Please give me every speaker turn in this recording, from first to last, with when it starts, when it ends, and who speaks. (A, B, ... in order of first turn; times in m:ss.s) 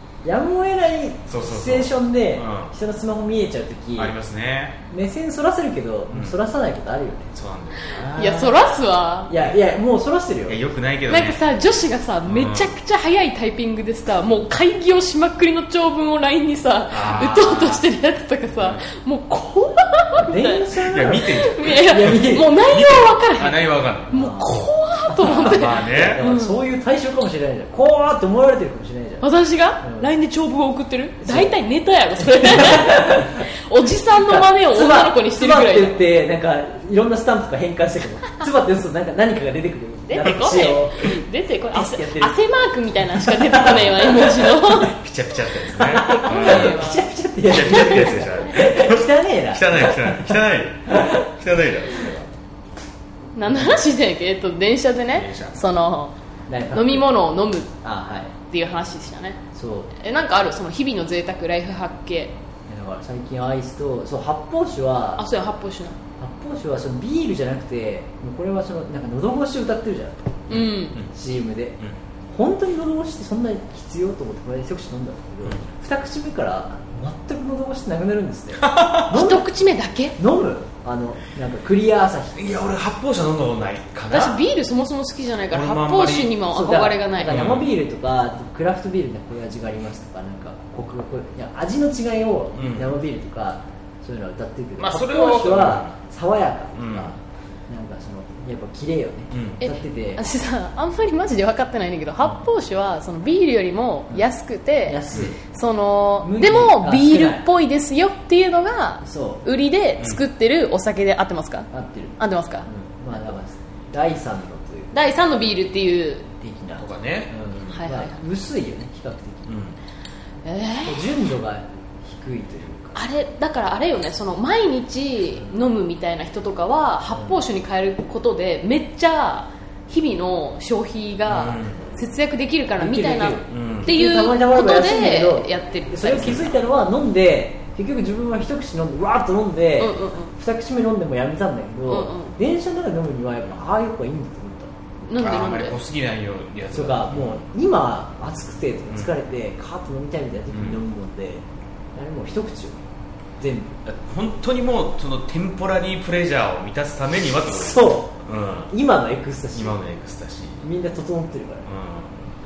0:00.2-0:04.1 A
0:01.3-0:02.7 B
0:04.0-0:04.8 B
0:04.9-0:07.3 A
0:06.1-0:06.4 B
0:07.3-0:08.6 B
0:08.0-0:09.3 C
0:09.3-0:10.6 A
0:10.5-0:11.4 B
0:11.1-0:26.6 C
0:12.2-0:12.7 B
0:16.9-0:17.8 B
0:18.6-0:18.8 B
0:20.2-0:21.3 A
0:20.8-0:24.3 B
0:21.8-0:22.5 A
0:24.1-0:24.6 A
0:25.2-0:29.3 A
0:25.2-0:26.2 B
0:29.2-0:36.0 C
0:29.8-0:30.1 A
0:31.2-0:31.5 A
0:32.4-0:33.4 A
0:34.2-0:41.2 A
0:40.1-0:45.0 C
0:41.7-0:42.3 A
0:43.2-0:44.9 A
0:44.9-0:46.8 B
0:45.6-0:50.3 A
0:46.0-0:47.1 C
0:47.4-0:52.3 B
0:47.7-0:48.2 C
0:50.8-0:51.3 A
0:53.4-0:56.1 C
0:53.4-0:53.8 A
0:55.1-0:55.6 B
0:56.5-0:57.1 A
0:56.7-0:57.7 C
0:57.8-0:58.3 A
0:58.5-0:59.4 C
0:59.5-0:59.9 A
1:00.0-1:02.3 C
1:02.7-1:05.2 A
1:05.2-1:06.0 C
1:06.2-1:10.4 A
1:10.5-1:11.1 B
1:10.5-1:11.0 C
1:11.0-1:19.4 A
1:18.6-1:19.2 B
1:19.1-1:20.2 C
1:20.2-1:22.7 A
1:22.4-1:24.4 B
1:24.1-1:27.5 C
1:25.5-1:26.4 B
1:26.5-1:40.2 A
1:27.2-1:27.7 B
1:32.5-1:32.9 B
1:34.8-1:35.9 B
1:36.8-1:37.1 B
1:39.3-1:39.6 B
1:39.6-1:51.7 C
1:44.8-1:45.4 A
1:46.2-1:47.4 A
1:49.0-1:49.4 A
1:51.7-1:54.9 A
1:52.2-1:52.6 C
1:54.9-1:56.3 C
1:56.3-1:59.5 A
1:56.8-1:57.3 B
1:57.7-1:58.2 C
1:59.5-1:59.8 B
2:00.4-2:01.0 C
2:00.8-2:03.0 A
2:02.9-2:16.5 C
2:11.3-2:11.8 B
2:12.8-2:24.8 A
2:13.5-2:13.9 B
2:19.8-2:20.3 C
2:21.9-2:22.3 C
2:25.1-2:25.8 C
2:25.2-2:27.4 B
2:26.7-2:32.8 A
2:30.5-2:30.8 B
2:33.4-2:33.8 A
2:33.8-2:38.7 B
2:37.5-2:38.1 A
2:38.7-2:39.8 A
2:39.5-2:40.6 B
2:40.6-2:41.7 A
2:41.6-2:42.2 B